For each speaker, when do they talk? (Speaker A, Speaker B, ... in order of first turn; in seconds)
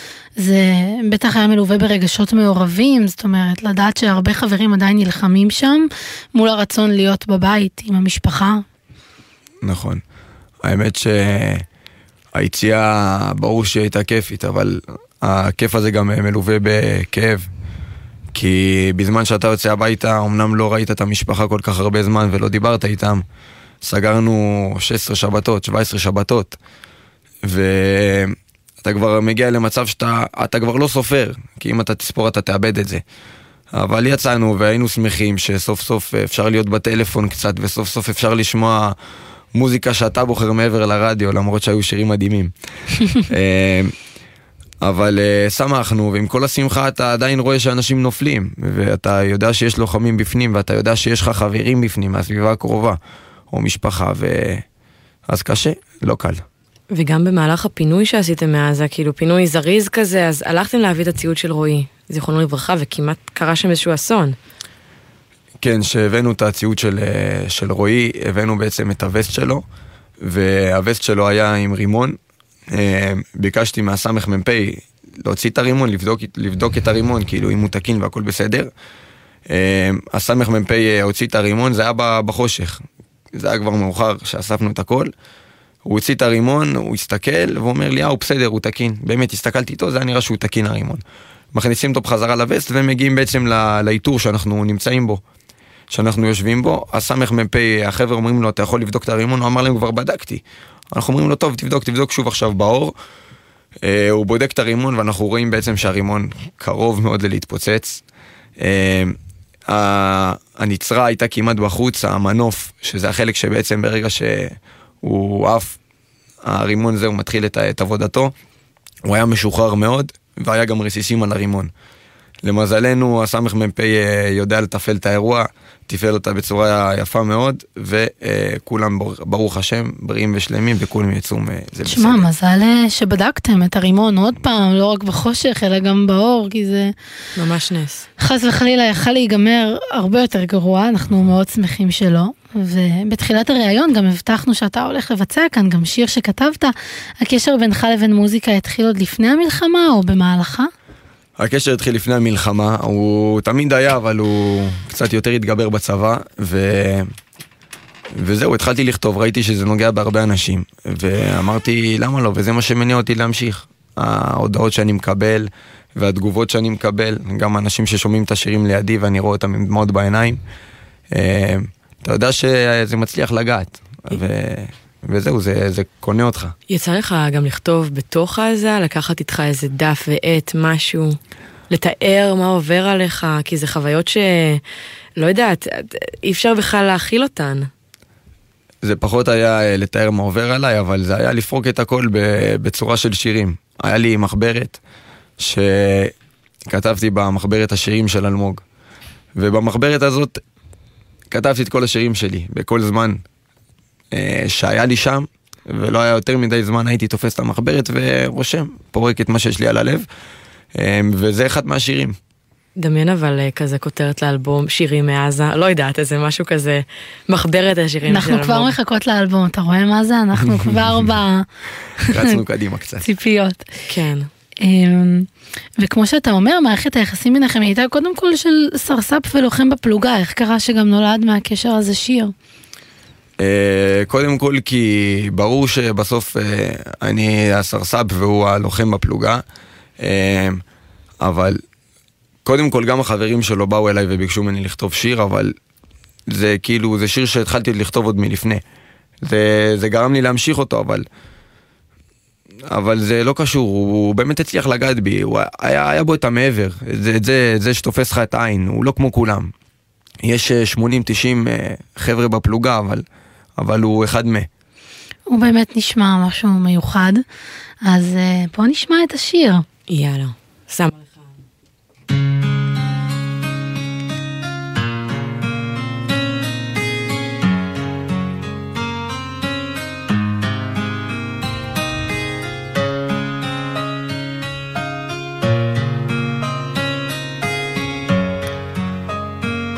Speaker A: 0.4-8.6, 131.9-136.9, 138.2-150.7, 218.1-221.4, 223.0-223.7, 224.6-225.3, 225.8-232.3, 265.3-267.2, 267.9-269.6
Speaker B: 9.6-10.0, 10.6-11.6, 12.3-17.4, 18.3-23.2, 23.8-26.6, 27.4-33.0, 33.7-38.9, 39.5-42.5, 43.3-43.9, 44.8-53.0, 53.5-54.6, 55.3-56.4, 65.6-69.6, 70.2-72.2, 72.7-78.7, 79.5-85.1, 85.9-91.0, 91.5-95.2, 95.9-100.4, 100.9-102.9, 103.8-108.0, 108.6-109.2, 109.7-115.8, 116.5-118.3, 119.0-121.7, 122.4-132.3, 151.4-157.1, 158.2-170.4, 171.1-176.5, 188.8-194.8, 195.4-196.1, 196.7-198.6, 199.4-200.4, 201.3-203.2, 204.1-210.0, 210.8-212.2, 220.4-221.2, 222.1-223.1, 233.4-239.4, 240.0-240.6, 241.2-241.6, 242.4-245.5, 246.3-248.6, 249.2-251.0, 252.7-259.5, 260.2-263.0, 263.6-264.5
Speaker C: 56.9-64.4, 137.4-138.1, 176.7-181.2, 181.7-184.6, 185.2-187.7, 212.8-218.7, 223.9-224.3, 269.9-271.2